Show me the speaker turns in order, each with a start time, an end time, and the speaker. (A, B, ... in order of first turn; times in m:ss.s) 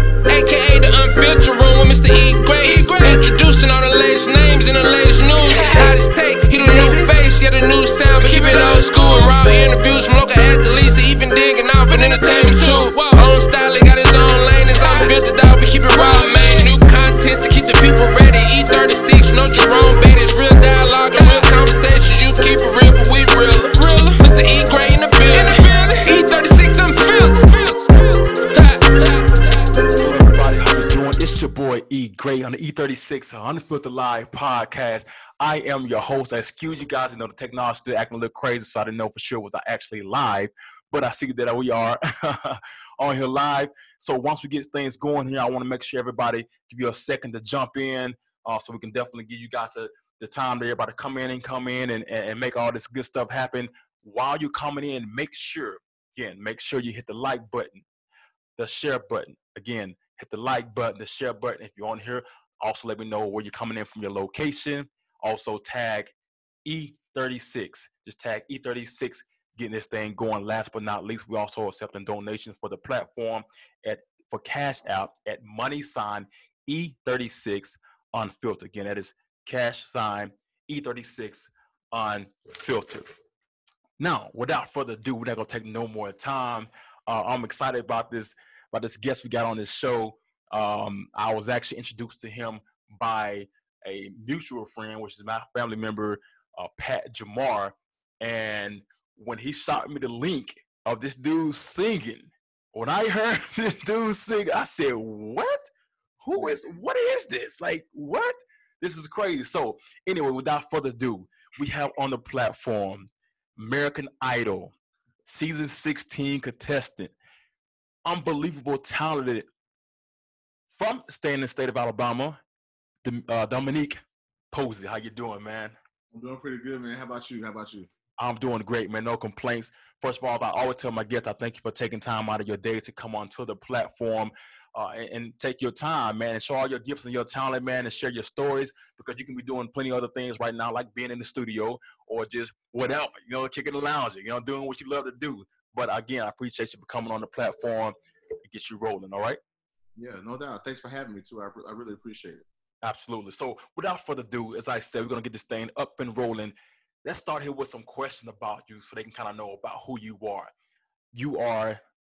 0:00.3-0:29.5 A
0:29.9-0:57.8 B
0:58.6-1:06.1 B
1:06.6-1:23.0 B
1:24.0-1:45.7 B
1:46.2-1:54.7 B
1:46.3-1:46.7 C
1:55.2-1:57.1 B
1:58.0-1:59.5 B
2:00.7-2:02.4 B
2:03.0-2:04.0 B
2:04.5-2:05.7 B
2:06.1-2:07.9 C
2:08.2-2:29.4 B
2:30.0-2:32.4 C
2:32.8-2:40.5 B
2:41.1-2:41.8 B